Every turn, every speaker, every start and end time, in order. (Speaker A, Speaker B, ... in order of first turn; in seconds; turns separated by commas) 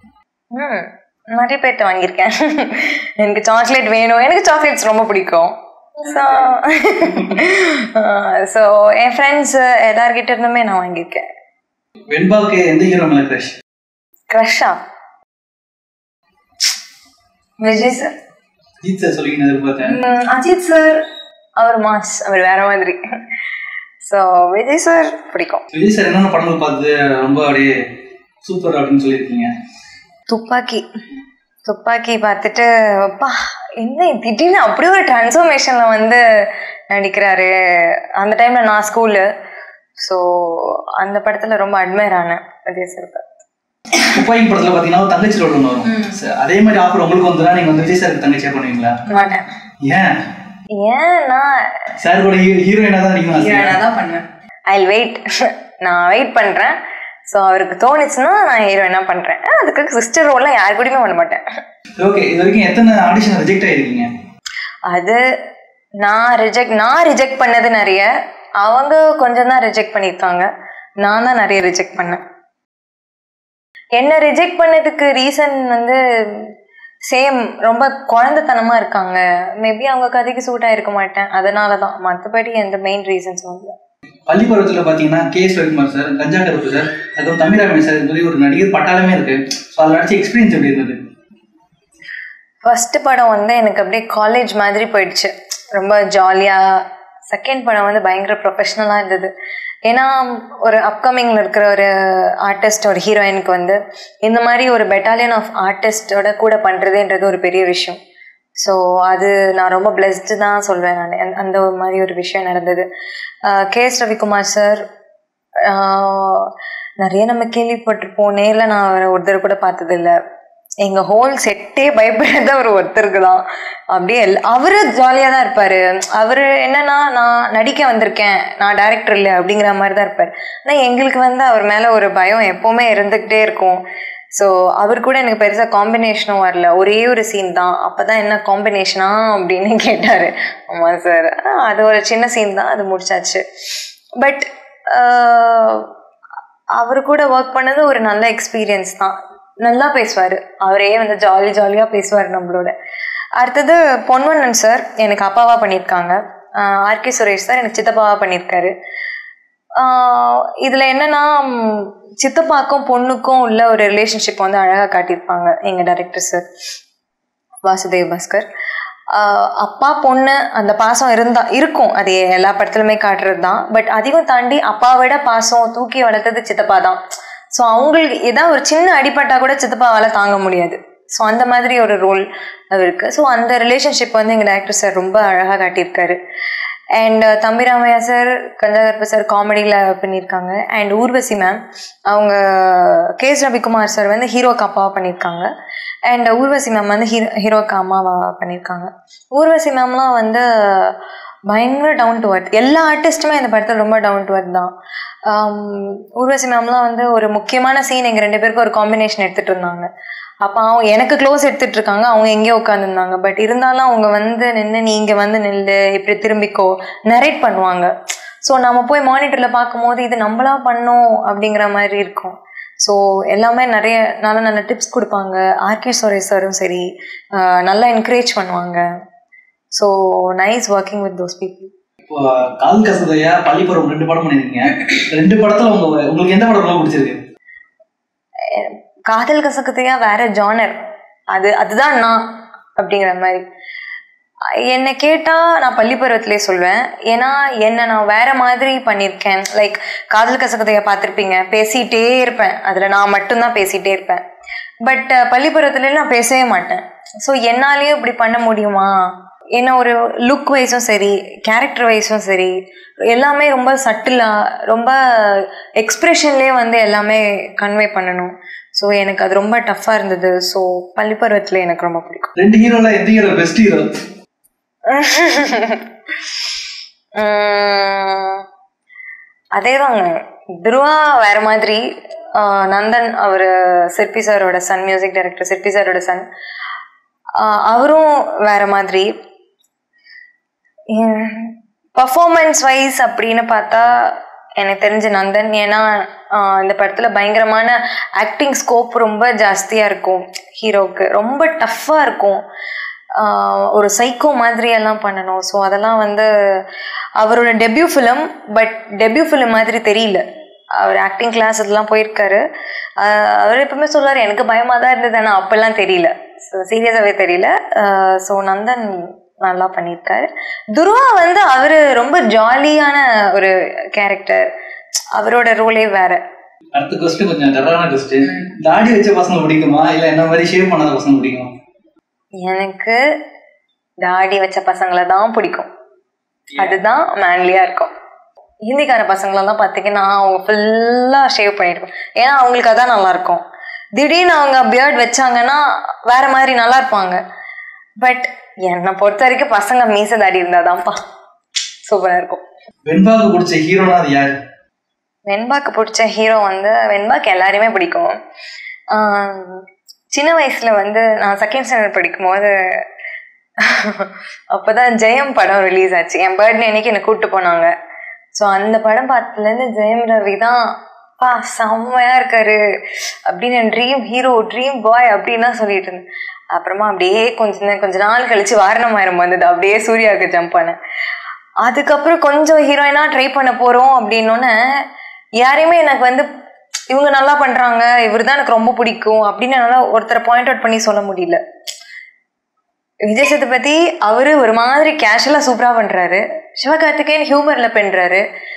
Speaker A: 0.5-11.2, Speaker B: 12.1-13.6, Speaker A: 14.3-14.8, Speaker A: 17.6-18.1, Speaker B: 18.8-20.0, Speaker A: 19.8-21.0, Speaker A: 21.6-23.0, Speaker A: 24.1-25.6, Speaker B: 25.7-27.8, Speaker B: 28.4-29.5, Speaker A: 30.3-30.9, Speaker A: 31.7-36.2, Speaker A: 36.9-39.3, Speaker A: 40.0-43.4, Speaker B: 44.1-49.0, Speaker A: 49.1-49.5, Speaker B: 49.8-50.3, Speaker A: 50.8-51.6, Speaker B: 52.0-53.8, Speaker A: 53.4-56.8, Speaker A: 57.3-61.4, Speaker B: 62.0-64.1, Speaker A: 64.9-65.2, Speaker A: 66.0-70.5, Speaker A: 71.0-72.2, Speaker A: 74.0-76.5, Speaker A: 77.1-83.7, Speaker B: 84.3-91.0, Speaker A: 92.6-99.3, Speaker A: 99.8-108.0, Speaker A: 108.6-112.9, Speaker A: 113.5-114.8, Speaker A: 115.7-120.2, Speaker A: 120.8-133.8, Speaker A: 134.3-143.4, Speaker A: 144.2-145.9, Speaker A: 146.8-152.7, Speaker A: 153.4-158.7, Speaker A: 159.8-166.4, Speaker A: 167.6-168.5, Speaker A: 169.1-177.0, Speaker A: 177.5-186.2, Speaker A: 186.9-195.5, Speaker A: 196.1-201.0, Speaker A: 201.5-204.7, Speaker A: 205.3-209.9, Speaker A: 210.4-217.9, Speaker A: 218.4-228.8, Speaker A: 229.7-231.7, Speaker B: 232.1-237.2, Speaker A: 238.5-243.4, Speaker A: 244.6-254.2, Speaker A: 254.8-262.5, Speaker A: 263.1-272.3, Speaker B: 272.4-274.0, Speaker A: 274.9-275.8, Speaker A: 277.2-278.4, Speaker A: 279.6-286.3, Speaker A: 287.4-289.1, Speaker A: 290.9-302.4, Speaker A: 303.2-306.6, Speaker A: 307.2-310.2, Speaker A: 310.8-312.4, Speaker A: 313.0-324.5, Speaker A: 325.1-326.2, Speaker B: 326.8-331.5, Speaker A: 332.4-333.0, Speaker A: 334.0-335.7, Speaker A: 336.6-337.9, Speaker A: 338.6-343.4, Speaker A: 343.9-347.2, Speaker A: 348.0-351.0, Speaker A: 351.9-352.4, Speaker B: 352.9-354.3, Speaker A: 355.3-358.1, Speaker A: 358.9-362.8, Speaker A: 363.6-367.7, Speaker A: 368.3-372.6, Speaker A: 373.3-380.8, Speaker A: 381.6-384.5, Speaker A: 385.4-386.3, Speaker A: 386.9-391.4, Speaker A: 393.0-398.2